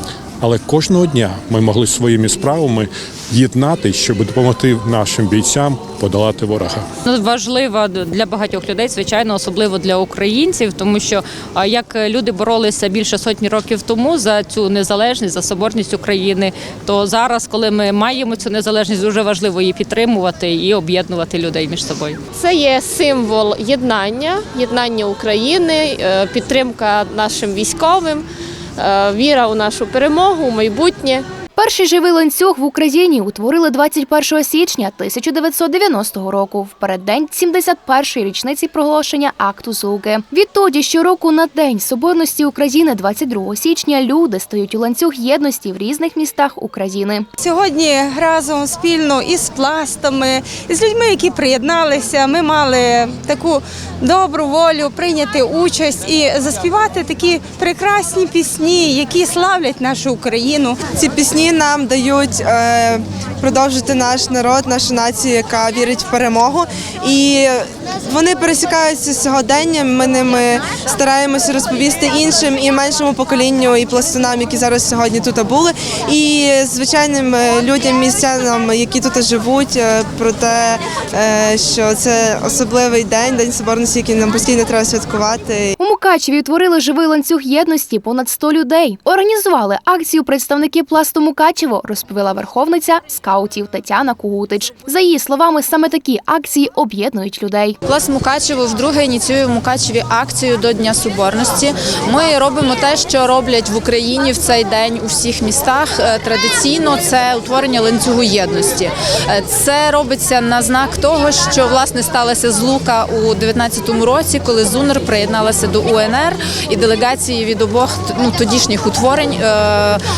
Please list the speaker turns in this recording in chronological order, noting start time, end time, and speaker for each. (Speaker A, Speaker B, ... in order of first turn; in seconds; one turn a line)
Speaker A: 0.4-6.9
Speaker B: 7.0-22.2
Speaker C: 22.3-31.3
Speaker D: 31.6-47.3
Speaker E: 47.4-60.8
Speaker F: 60.9-85.7
Speaker D: 85.8-97.8
Speaker G: 97.8-120.0